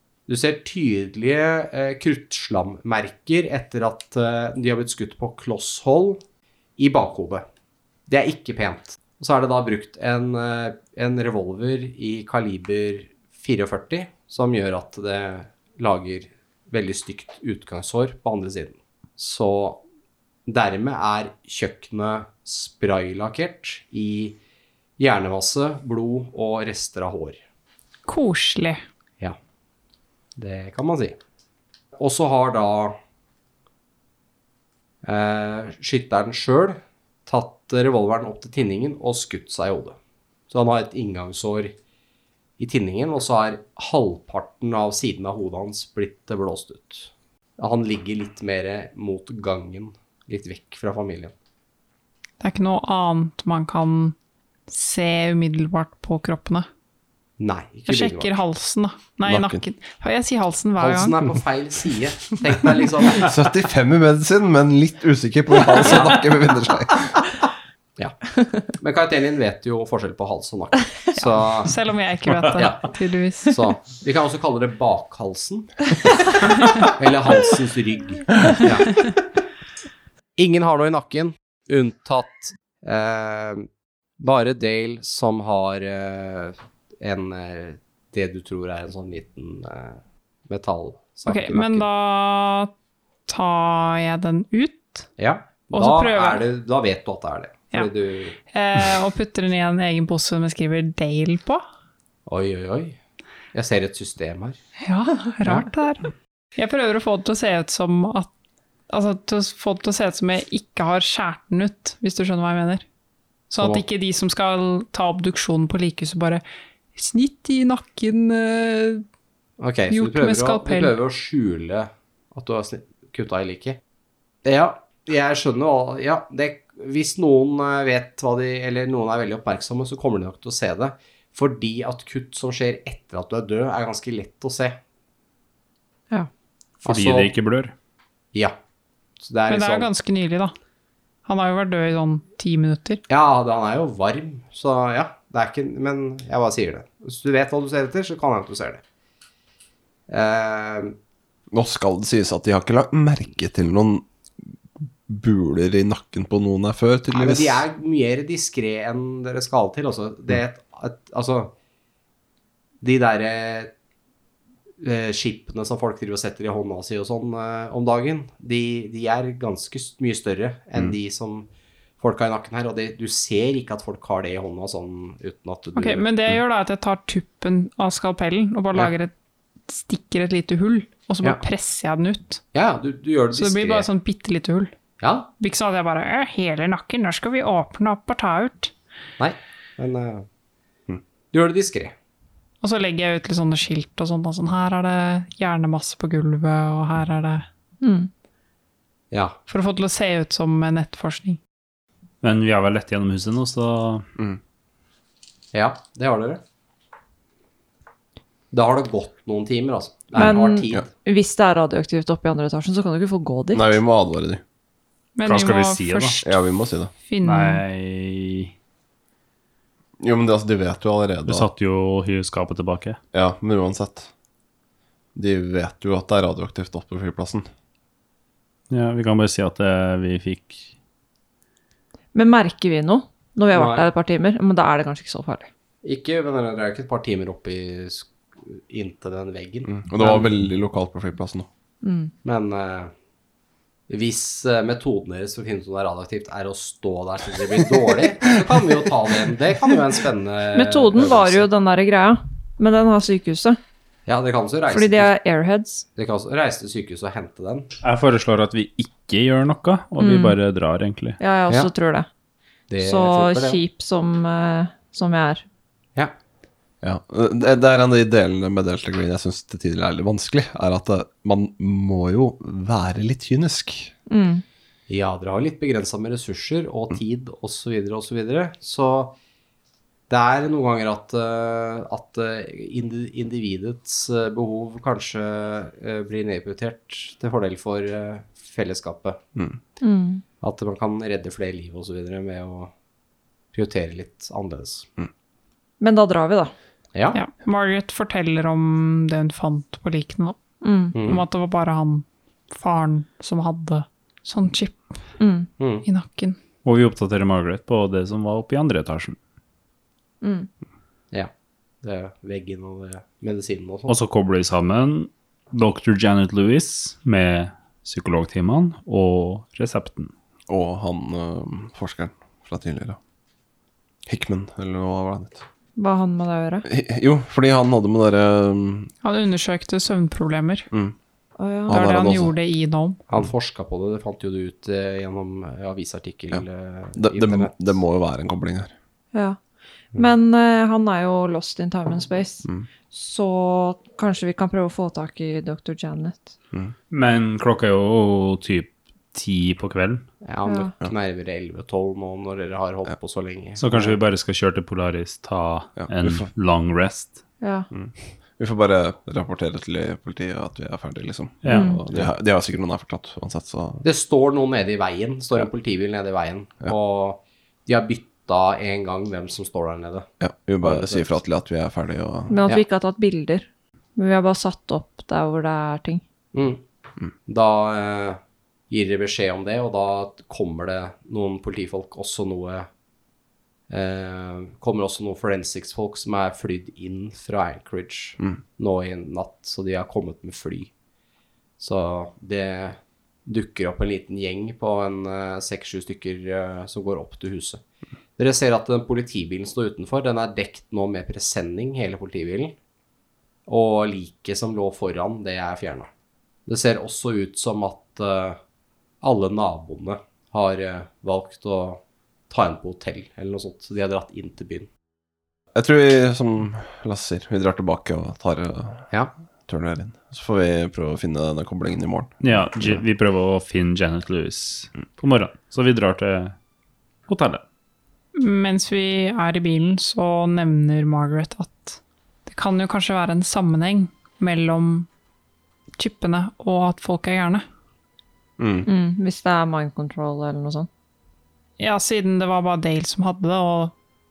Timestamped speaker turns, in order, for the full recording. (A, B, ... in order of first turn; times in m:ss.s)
0:00.3-0:06.2 A
0:06.8-0:07.4 A
0:08.1-0:19.8 A
0:20.4-0:24.4 A
0:25.0-0:27.4 A
0:28.0-0:28.8 B
0:30.4-0:31.2 A
0:32.0-0:33.0 A
0:35.0-0:40.0 A
0:40.5-0:41.7 A
0:42.6-0:51.3 A
0:52.4-0:54.2 B
0:54.7-0:56.7 B
0:57.4-0:58.4 A
0:57.9-1:01.2 B
0:59.2-0:59.6 C
1:00.8-1:03.3 A
1:03.2-1:07.3 C
1:05.8-1:06.2 A
1:08.7-1:11.7 A
1:11.6-1:13.6 B
1:12.5-1:12.9 A
1:13.4-1:15.8 A
1:16.8-1:19.0 A
1:20.4-1:23.7 A
1:24.2-1:31.9 A
1:31.2-1:32.7 B
1:33.3-1:35.1 B
1:35.2-1:38.4 A
1:35.7-1:36.4 B
1:38.4-1:41.6 B
1:42.3-1:43.0 A
1:43.5-1:44.6 A
1:44.8-1:48.3 B
1:45.4-1:45.7 A
1:48.9-1:52.8 B
1:53.5-1:56.4 B
1:53.6-1:53.8 A
1:56.9-1:59.0 B
1:59.6-2:03.8 A
1:59.9-2:01.0 B
2:04.4-2:14.8 A
2:16.8-2:17.3 A
2:16.8-2:17.7 D
2:19.2-2:19.9 A
2:19.5-2:20.5 B
2:21.2-2:23.0 B
2:23.1-2:28.8 A
2:30.1-2:31.0 A
2:31.5-2:34.0 C
2:35.1-2:37.6 C
2:37.1-2:41.5 A
2:42.8-2:43.7 A
2:44.8-2:51.5 A
2:52.0-2:56.1 A
2:55.7-2:59.1 B
2:59.7-3:02.4 B
3:02.5-3:03.9 A
3:03.3-3:04.7 B
3:05.0-3:05.3 A
3:05.4-3:08.7 B
3:09.2-3:10.3 A
3:11.3-3:11.9 A
3:12.6-3:17.4 B
3:17.8-3:18.1 E
3:19.1-3:19.4 A
3:19.5-3:21.4 B
3:22.2-3:24.0 D
3:25.5-3:26.4 A
3:28.5-3:30.8 A
3:30.2-3:33.8 E
3:33.5-3:34.4 C
3:35.2-3:36.3 B
3:35.2-3:36.2 D
3:36.2-3:36.9 C
3:37.0-3:37.6 B
3:37.2-3:38.5 D
3:40.0-3:41.5 C
3:41.2-3:43.0 D
3:43.1-3:44.1 C
3:45.1-3:47.5 C
3:48.7-3:50.7 D
3:52.1-3:55.5 E
3:53.5-3:53.9 A
3:55.8-4:00.3 A
3:59.7-4:01.5 C
4:01.8-4:02.1 E
4:02.2-4:02.9 A
4:03.9-4:11.4 A
4:10.5-4:13.6 E
4:14.0-4:15.1 A
4:14.7-4:15.9 E
4:16.0-4:17.7 A
4:17.8-4:21.2 D
4:20.0-4:20.4 E
4:21.2-4:22.1 E
4:22.7-4:23.6 A
4:22.8-4:25.4 E
4:26.8-4:33.9 C
4:34.1-4:34.4 E
4:34.9-4:39.2 A
4:40.1-4:49.2 A
4:49.8-4:50.2 E
4:50.4-4:52.7 A
4:53.5-4:54.9 A
4:55.8-4:56.5 E
4:56.9-4:57.2 A
4:57.1-5:00.4 B
5:00.6-5:01.0 E
5:00.9-5:01.2 A
5:01.0-5:05.0 B
5:05.2-5:05.5 E
5:05.6-5:05.8 A
5:05.8-5:06.4 B
5:06.6-5:09.2 D
5:10.2-5:10.5 E
5:11.8-5:13.9 A
5:13.9-5:20.1 D
5:20.5-5:23.0 C
5:24.0-5:25.4 C
5:25.8-5:26.6 E
5:26.6-5:28.9 C
5:29.0-5:30.7 B
5:31.4-5:31.8 E
5:31.7-5:32.3 C
5:31.7-5:33.0 B
5:33.1-5:37.8 A
5:37.0-5:38.7 C
5:39.9-5:46.3 E
5:46.9-5:50.0 D
5:50.2-5:54.0 A
5:50.4-5:50.7 E
5:53.6-5:57.2 D
5:55.8-5:56.2 C
5:57.4-5:57.7 E
5:57.7-6:03.8 C
6:01.4-6:01.8 D
6:01.5-6:01.8 E
6:03.8-6:10.1 A
6:10.2-6:12.4 C
6:10.6-6:11.2 A
6:12.3-6:16.0 E
6:16.3-6:16.6 A
6:17.2-6:18.2 A
6:18.7-6:22.7 A
6:23.7-6:30.7 A
6:31.6-6:37.6 A
6:38.2-6:42.6 A
6:43.5-6:45.9 A
6:46.4-6:48.4 A
6:49.0-6:54.7 A
6:55.5-6:58.9 C
6:59.5-7:02.7 C
7:02.2-7:06.4 D
7:07.1-7:07.4 D
7:08.1-7:14.9 B
7:15.8-7:17.4 B
7:18.4-7:18.7 C
7:18.6-7:20.7 E
7:21.6-7:23.7 B